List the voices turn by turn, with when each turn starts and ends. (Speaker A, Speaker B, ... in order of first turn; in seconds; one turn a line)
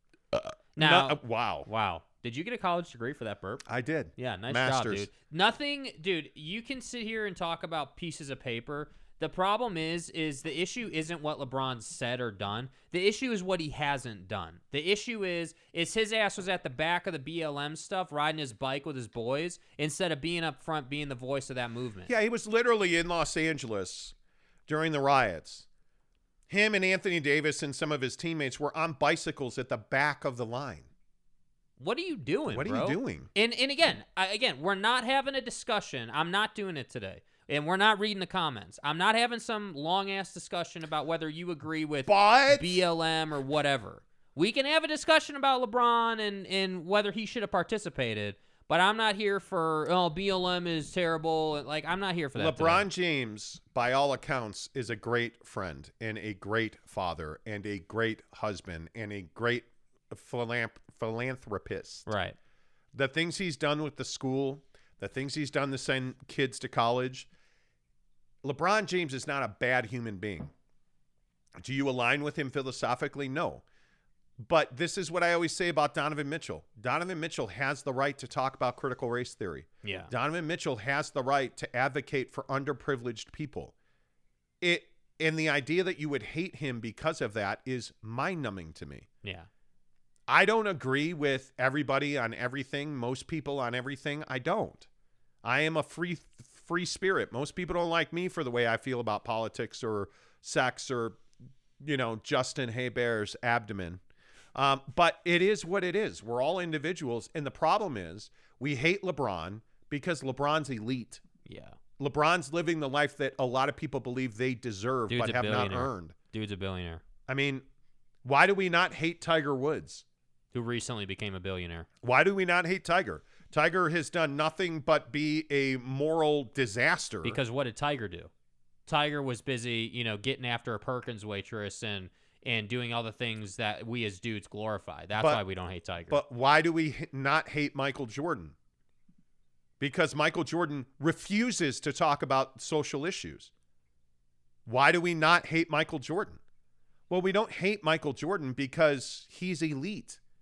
Speaker A: 0.3-1.7
Speaker B: 0.8-3.6
Speaker A: 3.7-5.1
Speaker B: 4.2-22.1
Speaker A: 22.1-24.1
Speaker A: 24.7-25.7
Speaker A: 26.5-30.9
Speaker B: 31.8-52.9
Speaker A: 32.5-33.3
Speaker A: 42.1-42.8
Speaker A: 52.4-62.1
Speaker B: 62.1-62.4
Speaker A: 62.9-67.3
Speaker A: 68.4-70.5
Speaker A: 71.6-73.6
Speaker A: 74.4-83.7
Speaker B: 79.8-80.1
Speaker A: 84.6-89.1
Speaker A: 90.3-94.9
Speaker A: 95.4-101.2
Speaker A: 101.8-104.0
Speaker A: 104.5-111.2
Speaker B: 111.5-111.8
Speaker A: 112.0-116.1
Speaker B: 115.1-117.0
Speaker A: 117.3-117.7
Speaker A: 118.2-120.0
Speaker B: 120.5-121.9
Speaker A: 122.0-127.4
Speaker B: 127.2-128.3
Speaker B: 128.9-136.2
Speaker A: 136.1-138.6
Speaker A: 139.8-143.5
Speaker A: 144.7-146.4
Speaker A: 147.1-150.2